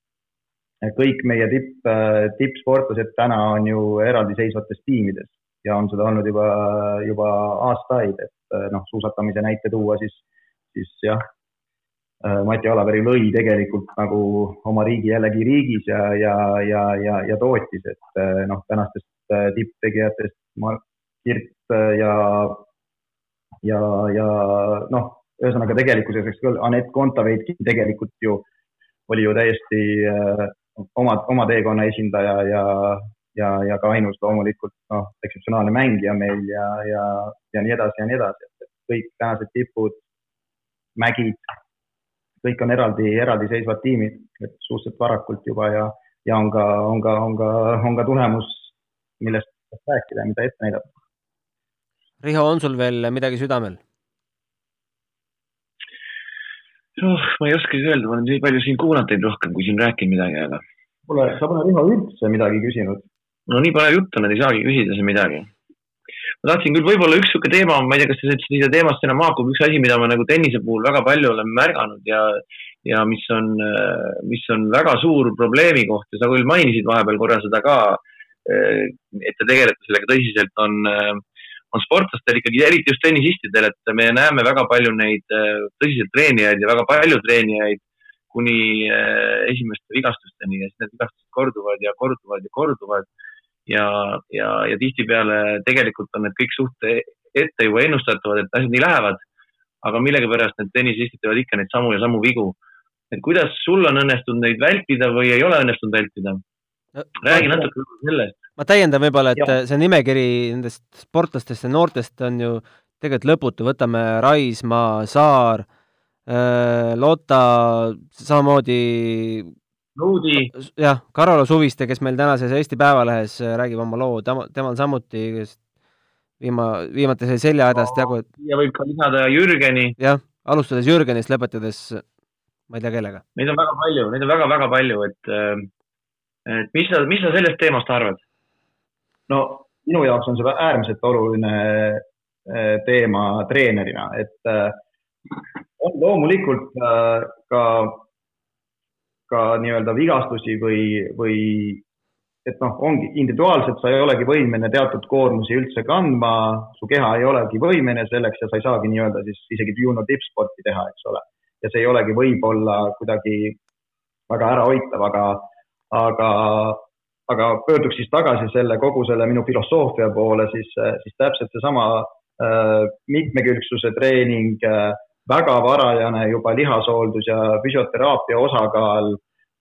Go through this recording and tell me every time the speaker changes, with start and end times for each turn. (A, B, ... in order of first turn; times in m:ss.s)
0:00.8-0:11.2 A
0:12.2-0:22.6 A
0:23.6-0:28.4 A
0:29.1-0:40.0 A
0:41.0-0:41.4 A
0:42.4-0:50.9 A
0:52.2-0:53.8 B
0:57.0-1:00.6 C
1:01.1-1:03.0 A
1:03.5-1:05.5 C
1:06.4-1:27.8 C
1:28.3-1:33.0 C
1:33.7-1:39.2 C
1:39.8-1:42.5 C
1:43.1-1:46.4 C
1:47.0-1:47.5 B
1:47.2-1:48.3 C
1:48.6-1:55.6 B
1:56.3-1:59.5 B
2:00.0-2:00.5 C
2:00.5-2:05.6 B
2:06.4-2:08.2 B
2:07.7-2:10.0 C
2:10.0-2:12.0 B
2:12.7-2:13.2 B
2:13.4-2:15.7 C
2:16.5-2:18.2 C
2:19.3-2:24.8 A
2:25.8-2:28.0 A
2:29.3-2:31.8 A
2:32.4-2:43.6 A
2:44.3-2:59.2 A